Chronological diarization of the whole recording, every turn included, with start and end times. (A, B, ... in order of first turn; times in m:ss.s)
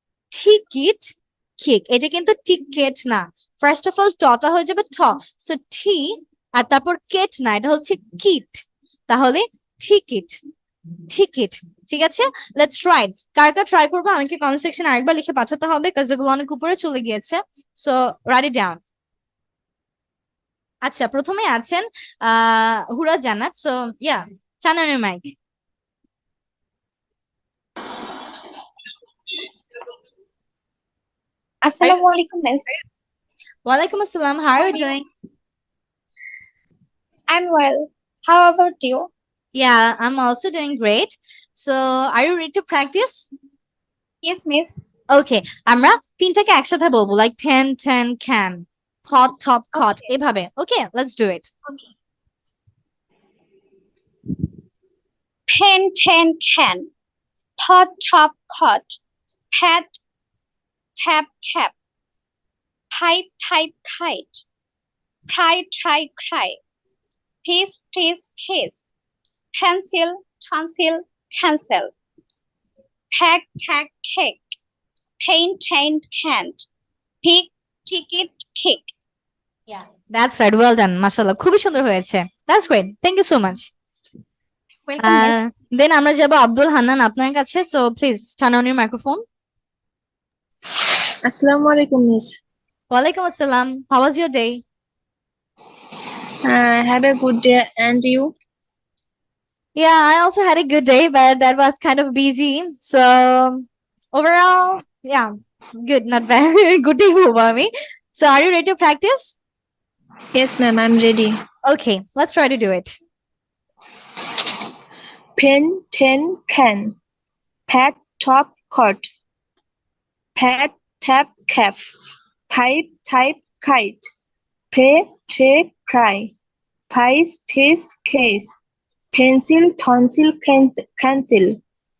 0:00.3-0:10.4 A
0:11.1-0:18.8 A
0:20.8-0:25.3 A
0:31.6-0:32.7 B
0:33.6-0:35.0 A
0:34.6-0:34.9 B
0:37.3-0:39.1 B
0:39.5-0:43.2 A
0:44.2-0:44.8 B
0:45.1-0:51.5 A
0:55.5-0:56.9 B
0:57.6-0:59.0 B
0:59.5-1:00.0 B
1:01.0-1:01.7 B
1:02.9-1:04.4 B
1:05.3-1:06.6 B
1:07.4-1:08.9 B
1:09.5-1:11.9 B
1:13.1-1:14.4 B
1:15.2-1:16.7 B
1:17.2-1:18.9 B
1:19.7-1:23.7 A
1:24.9-1:25.5 B
1:25.0-1:29.2 A
1:31.2-1:32.3 C
1:32.9-1:34.6 A
1:36.4-1:38.3 C
1:39.8-1:45.3 A
1:45.8-1:49.4 A
1:50.3-1:51.4 C
1:51.6-1:53.0 A
1:55.4-1:56.9 C
1:57.7-1:59.1 C
2:00.4-2:01.8 C
2:02.5-2:04.0 C
2:04.7-2:06.3 C
2:06.9-2:08.5 C
2:09.1-2:11.6 C